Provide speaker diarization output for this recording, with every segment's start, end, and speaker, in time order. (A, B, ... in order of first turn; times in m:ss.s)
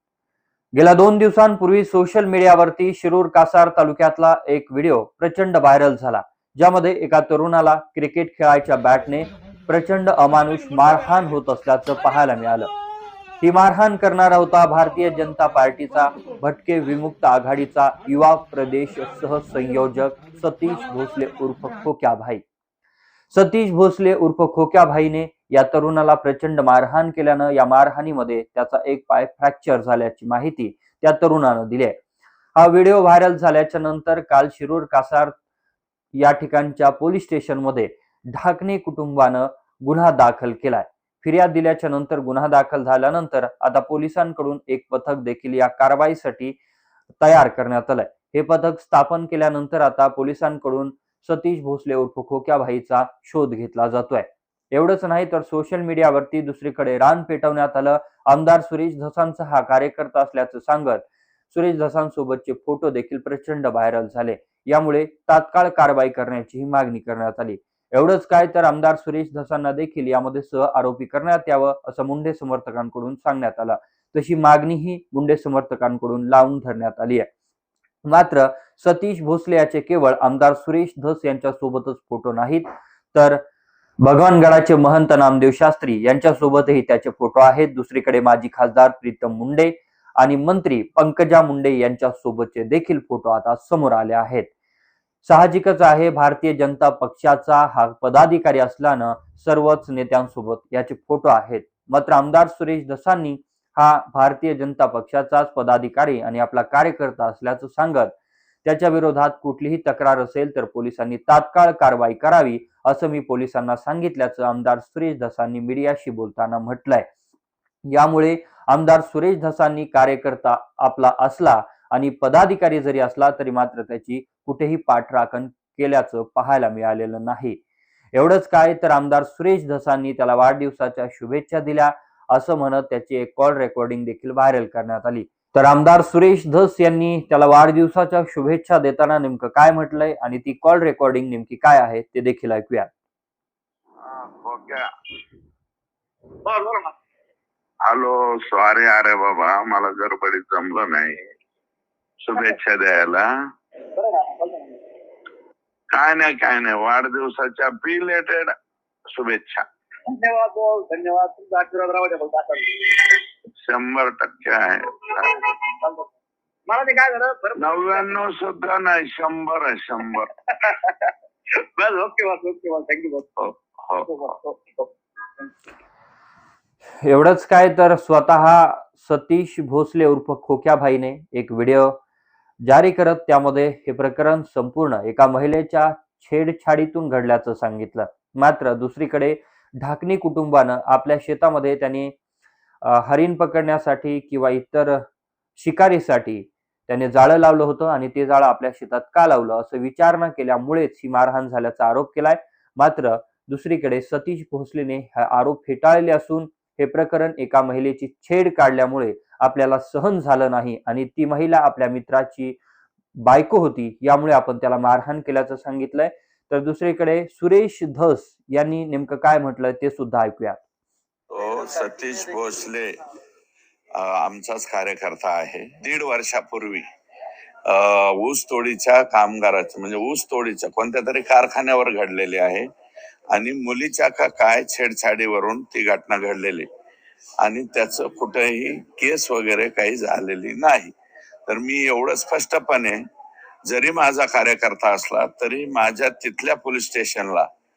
0:00.8-0:12.7 A
0:13.4-0:22.4 A
0:23.3-0:32.0 A
0:32.6-0:35.3 A
0:36.2-0:46.6 A
0:47.2-1:17.3 A
1:18.0-1:23.4 A
1:24.0-1:34.5 A
1:35.2-1:48.1 A
1:48.6-1:57.1 A
1:57.9-2:07.6 A
2:08.1-2:22.9 A
2:24.0-2:24.8 B
2:26.4-2:27.0 C
2:27.8-2:31.2 B
2:32.2-2:33.3 B
2:33.9-2:34.8 C
2:35.9-2:38.5 B
2:39.1-2:39.6 B
2:40.1-2:43.2 C
2:43.6-2:45.4 B
2:45.2-2:46.1 C
2:46.7-2:48.2 C
2:47.6-2:50.3 B
2:50.5-2:53.4 C
2:53.4-2:54.2 B
2:54.0-2:54.9 C
2:57.0-3:02.0 A
3:02.6-3:12.1 A
3:12.8-3:15.0 A
3:15.6-3:32.6 A
3:33.2-3:40.6 A
3:41.3-3:43.0 B
3:43.9-3:46.8 B
3:47.6-3:52.7 B
3:53.3-3:56.7 B
3:57.4-4:00.9 B
4:01.4-4:03.0 B
4:03.6-4:07.5 B